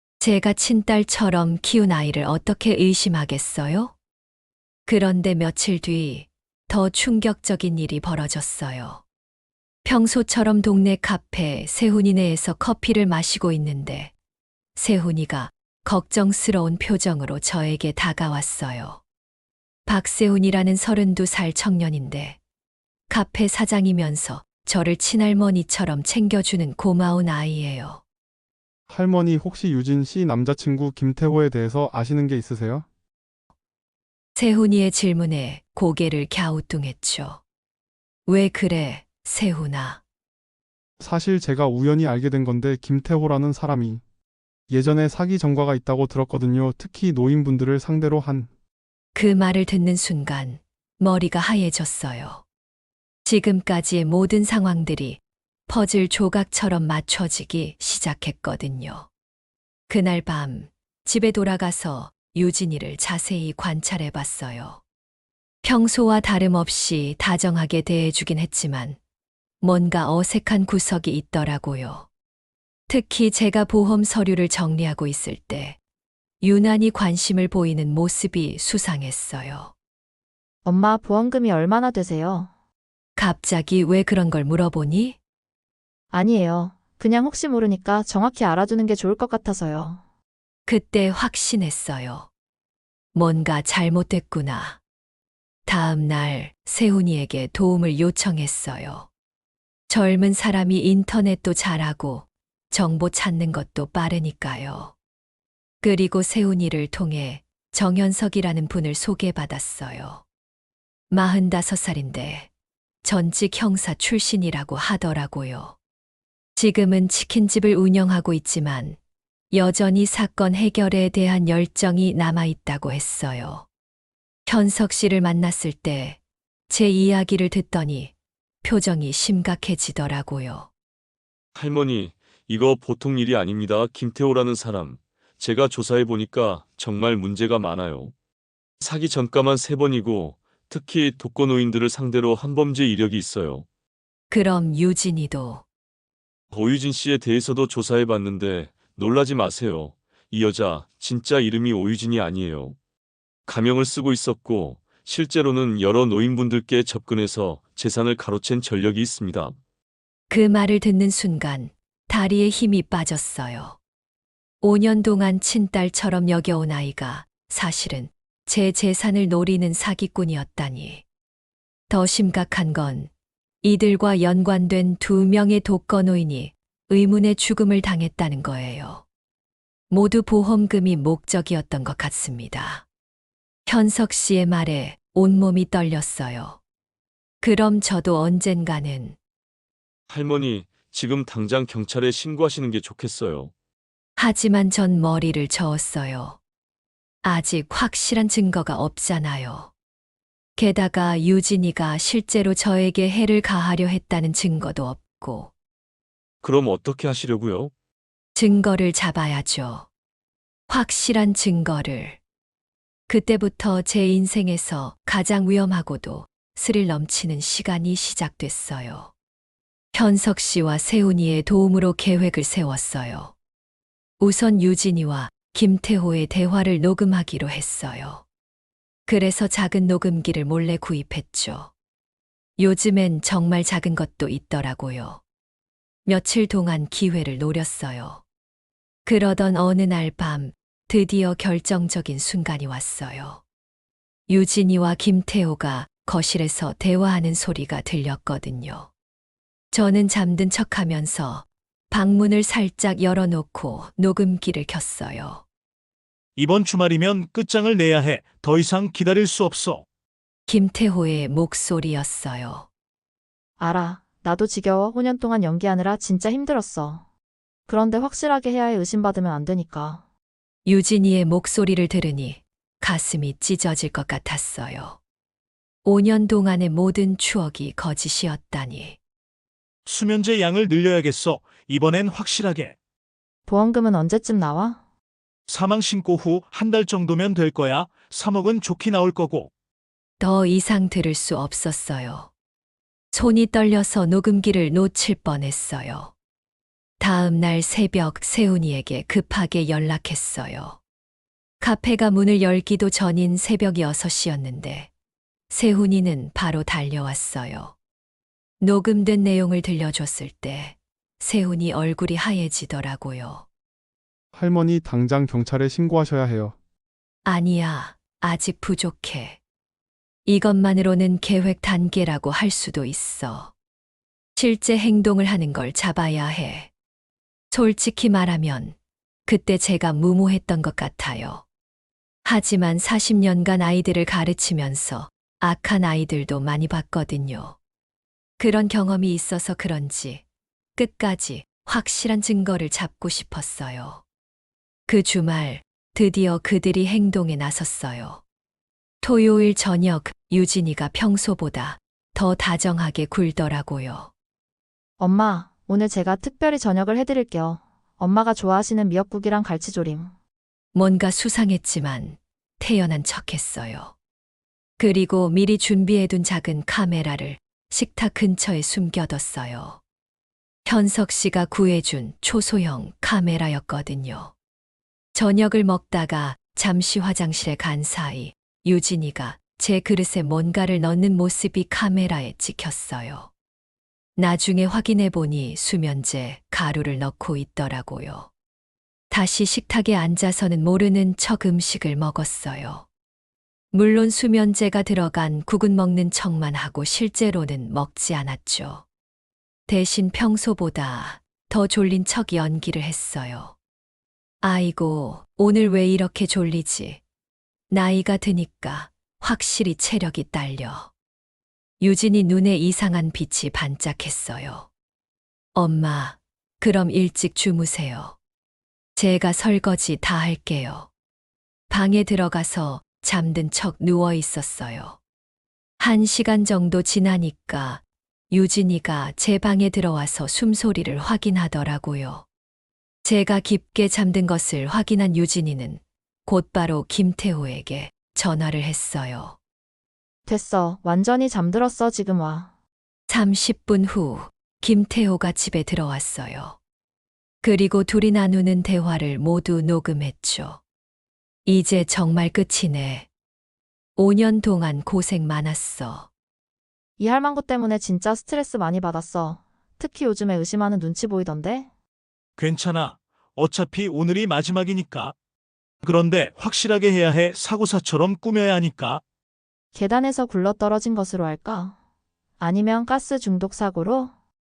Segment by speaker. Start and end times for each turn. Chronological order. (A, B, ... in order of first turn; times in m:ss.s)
0:00.2-0:03.9 A
0:04.9-0:09.0 A
0:09.8-0:14.1 A
0:14.8-0:19.0 A
0:19.9-0:22.4 A
0:23.1-0:28.0 A
0:28.9-0:32.9 B
0:34.4-0:37.4 A
0:38.3-0:40.0 A
0:41.0-0:44.0 B
0:44.7-0:48.5 B
0:49.2-0:52.4 A
0:53.2-0:59.1 A
0:59.9-1:04.8 A
1:05.6-1:09.0 A
1:09.6-1:12.1 A
1:12.9-1:15.8 A
1:16.4-1:19.7 A
1:20.6-1:22.5 C
1:23.2-1:25.2 A
1:26.1-1:30.0 C
1:30.7-1:32.3 A
1:33.2-1:34.8 A
1:35.7-1:39.1 A
1:39.9-1:44.9 A
1:45.8-1:50.2 A
1:51.1-1:52.5 A
1:53.0-1:55.8 A
1:56.6-1:59.0 A
1:59.5-2:03.7 A
2:04.5-2:10.7 A
2:11.6-2:18.1 D
2:18.8-2:23.6 D
2:24.3-2:25.6 A
2:26.5-2:32.8 D
2:33.5-2:39.6 D
2:40.3-2:43.8 A
2:44.6-2:51.0 A
2:51.9-2:53.1 A
2:53.6-2:59.0 A
2:59.9-3:02.8 A
3:03.7-3:06.6 A
3:07.4-3:09.2 A
3:10.1-3:13.5 D
3:14.2-3:16.4 A
3:17.2-3:19.7 A
3:20.6-3:25.5 A
3:26.4-3:27.7 D
3:28.4-3:29.9 A
3:30.7-3:32.2 A
3:33.1-3:39.1 A
3:39.9-3:43.3 A
3:44.2-3:48.2 A
3:49.1-3:51.7 A
3:52.6-3:55.2 A
3:56.1-3:58.2 A
3:59.0-4:03.4 A
4:04.3-4:08.9 A
4:09.7-4:15.4 A
4:16.4-4:19.8 E
4:20.5-4:22.7 A
4:23.6-4:27.0 C
4:27.7-4:30.0 C
4:30.6-4:35.0 A
4:35.8-4:39.0 A
4:39.9-4:42.8 E
4:43.5-4:44.8 C
4:45.5-4:49.5 E
4:50.2-4:52.3 A
4:53.1-4:56.1 A
4:57.0-5:00.8 A
5:01.6-5:04.9 A
5:05.5-5:07.8 A
5:08.6-5:13.5 A
5:14.3-5:16.6 B
5:17.2-5:19.4 A
5:20.3-5:23.5 A
5:24.4-5:26.7 A
5:27.5-5:31.4 A
5:32.2-5:37.6 A
5:38.4-5:40.2 A
5:40.8-5:44.0 A
5:44.9-5:48.2 A
5:49.0-5:54.1 A
5:55.0-6:00.1 C
6:00.7-6:04.0 A
6:04.8-6:09.8 A
6:10.7-6:14.3 A
6:15.2-6:23.3 A
6:24.2-6:28.3 A
6:29.1-6:32.9 A
6:33.7-6:38.8 A
6:39.7-6:43.6 A
6:44.4-6:47.0 A
6:47.7-6:50.9 A
6:51.8-6:54.7 A
6:55.6-6:58.2 A
6:59.0-7:00.9 A
7:01.7-7:05.0 A
7:05.8-7:12.3 A
7:13.0-7:19.4 A
7:20.3-7:22.5 C
7:23.1-7:26.6 A
7:27.4-7:30.6 A
7:31.5-7:33.1 A
7:34.0-7:36.1 A
7:37.0-7:41.7 C
7:42.4-7:45.1 E
7:45.8-7:49.0 E
7:49.7-7:51.7 C
7:52.4-7:54.1 C